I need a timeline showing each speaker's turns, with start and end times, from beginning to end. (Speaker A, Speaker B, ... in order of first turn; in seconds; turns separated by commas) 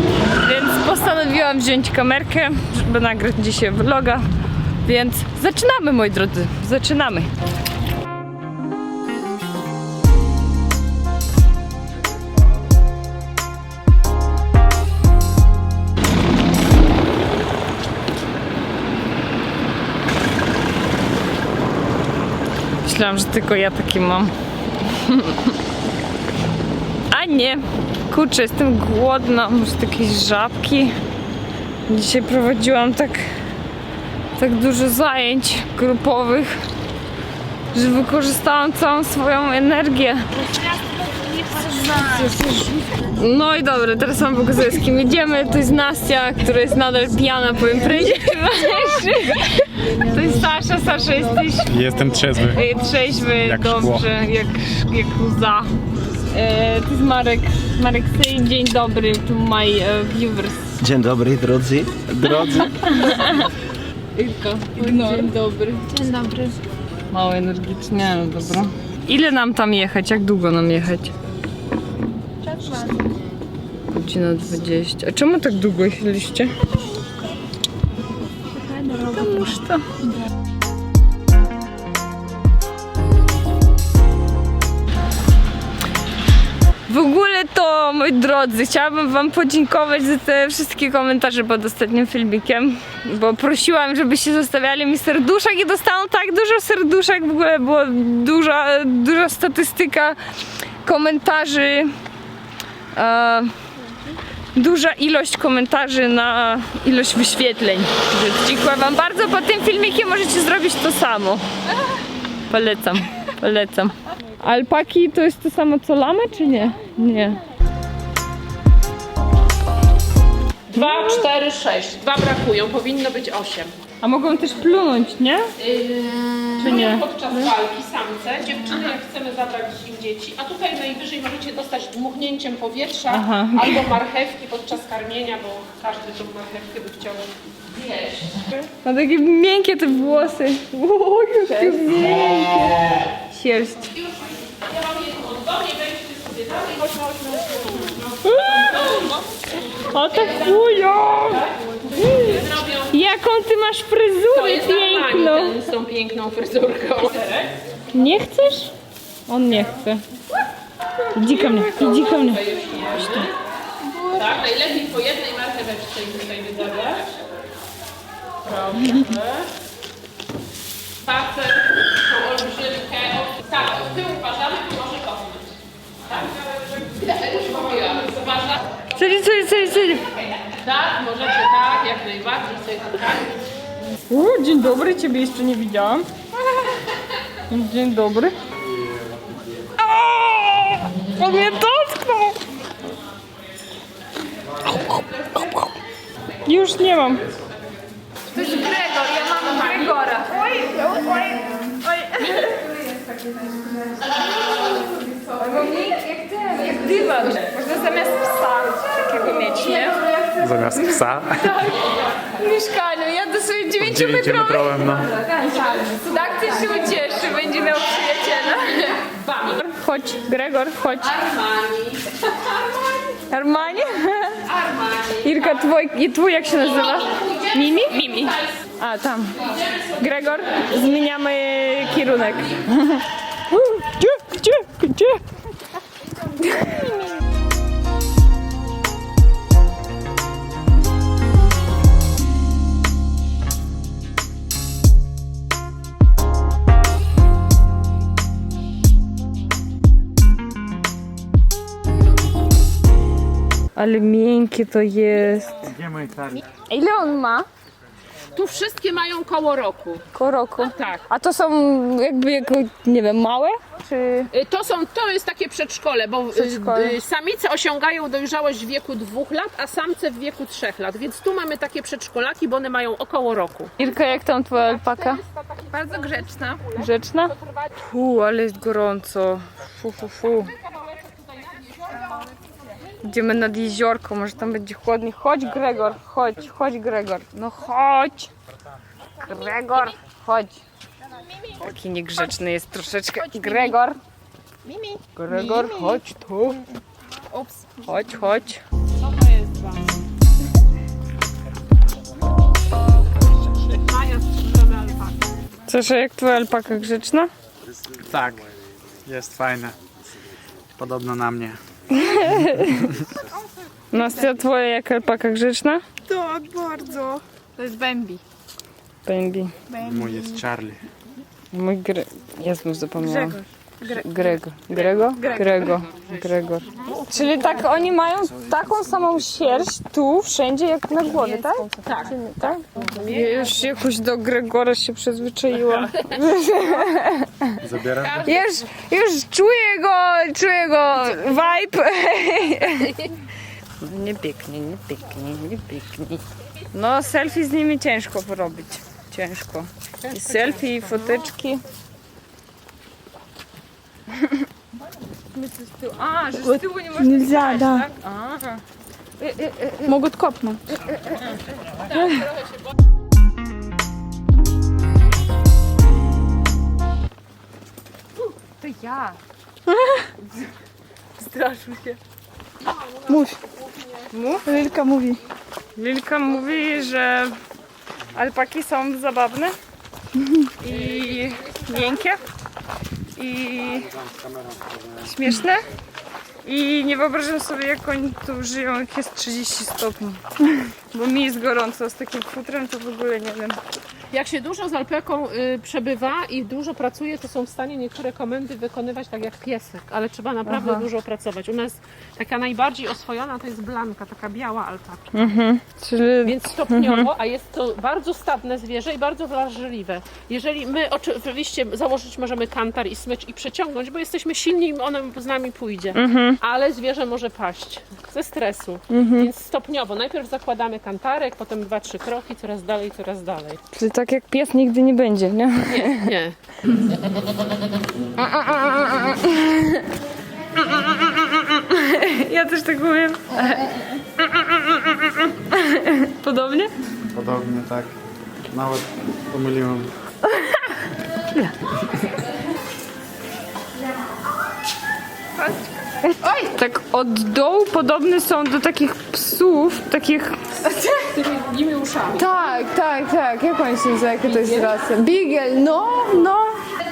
Speaker A: 0.4-4.2, Speaker A: 4.8-7.3, Speaker A: 22.8-24.3, Speaker A: 24.9-25.5, Speaker A: 27.1-30.9, Speaker A: 31.9-33.2, Speaker A: 34.3-36.6, Speaker A: 37.7-40.3, Speaker B: 40.6-42.1, Speaker A: 41.9-51.8, Speaker C: 51.6-52.6, Speaker A: 52.4-55.7, Speaker C: 53.4-54.1, Speaker A: 56.3-60.7, Speaker D: 60.8-62.7, Speaker A: 62.3-63.5, Speaker A: 64.2-66.2, Speaker A: 67.1-71.1, Speaker A: 73.9-76.5, Speaker A: 78.6-80.0, Speaker A: 86.9-100.2, Speaker A: 100.8-101.9, Speaker A: 102.9-103.5, Speaker A: 104.5-111.4, Speaker A: 112.5-117.4, Speaker B: 120.7-123.7, Speaker A: 120.7-121.2, Speaker A: 124.0-125.5, Speaker B: 125.6-137.3, Speaker A: 126.6-127.5, Speaker A: 133.1-133.9, Speaker B: 137.9-138.4, Speaker A: 138.5-143.9, Speaker B: 141.4-141.8, Speaker B: 144.0-149.2, Speaker A: 148.2-149.1, Speaker A: 149.8-155.6, Speaker B: 152.0-152.9, Speaker B: 154.3-157.6, Speaker A: 157.9-158.7, Speaker A: 159.3-160.0, Speaker A: 161.1-162.4, Speaker B: 161.3-163.3, Speaker A: 163.0-163.2, Speaker B: 163.8-167.1, Speaker B: 168.5-169.4, Speaker B: 171.0-175.6, Speaker B: 176.8-178.6, Speaker A: 178.9-180.1, Speaker B: 180.6-183.3, Speaker A: 184.1-186.1, Speaker A: 187.5-188.3, Speaker A: 189.8-192.4, Speaker A: 194.6-195.7, Speaker A: 196.4-197.2, Speaker A: 198.3-202.7, Speaker A: 205.2-210.2, Speaker C: 210.3-211.7, Speaker A: 211.4-211.7, Speaker A: 212.2-221.2, Speaker C: 213.8-215.1, Speaker B: 219.0-219.6, Speaker B: 221.1-222.9, Speaker A: 223.3-224.5, Speaker B: 224.4-225.4, Speaker A: 225.2-235.2, Speaker A: 236.4-236.9, Speaker A: 253.8-255.7, Speaker C: 255.6-256.4, Speaker A: 256.7-257.4, Speaker B: 258.3-260.0, Speaker A: 260.1-264.3, Speaker B: 260.6-261.0, Speaker B: 264.3-273.8, Speaker A: 266.3-267.0, Speaker A: 273.8-275.2, Speaker B: 274.7-277.7, Speaker E: 276.0-276.4, Speaker A: 276.7-280.5, Speaker B: 280.6-282.3, Speaker A: 283.0-288.3, Speaker A: 289.2-290.6, Speaker A: 291.5-294.0, Speaker E: 294.7-295.0, Speaker A: 295.1-296.6, Speaker A: 297.8-298.6, Speaker B: 299.0-299.9, Speaker B: 303.8-305.2, Speaker A: 305.7-307.3, Speaker C: 307.8-308.5, Speaker C: 309.0-309.7, Speaker C: 310.8-311.6, Speaker A: 311.9-312.9, Speaker C: 312.6-313.0, Speaker A: 313.9-315.8, Speaker E: 316.1-318.2, Speaker B: 317.6-317.9, Speaker A: 319.0-319.5, Speaker C: 319.8-320.8, Speaker A: 321.5-337.6, Speaker B: 325.0-326.0, Speaker B: 331.8-333.5, Speaker B: 335.6-336.0, Speaker C: 337.6-338.3, Speaker B: 337.9-338.6, Speaker A: 338.2-343.0, Speaker A: 343.8-351.6, Speaker B: 350.0-351.1, Speaker A: 355.3-358.6, Speaker A: 359.2-360.1, Speaker E: 360.0-360.4, Speaker A: 360.7-362.2, Speaker A: 368.6-369.2, Speaker B: 371.2-371.9, Speaker A: 371.3-371.8, Speaker A: 374.1-374.6, Speaker E: 374.7-375.1, Speaker A: 375.8-377.3, Speaker A: 378.1-379.5, Speaker A: 380.4-382.2, Speaker A: 383.1-383.9, Speaker C: 383.8-385.1, Speaker A: 385.0-385.6, Speaker A: 386.4-390.2, Speaker A: 390.9-393.6, Speaker B: 394.1-405.3, Speaker A: 400.4-400.8, Speaker A: 405.1-407.1, Speaker B: 406.2-423.6, Speaker A: 415.9-416.4, Speaker A: 418.9-419.3, Speaker A: 423.7-426.1, Speaker B: 425.7-426.4, Speaker A: 428.2-429.9, Speaker A: 430.6-436.7, Speaker C: 437.1-437.9, Speaker C: 438.5-439.9, Speaker A: 446.1-450.4, Speaker B: 450.7-452.3, Speaker A: 452.1-456.6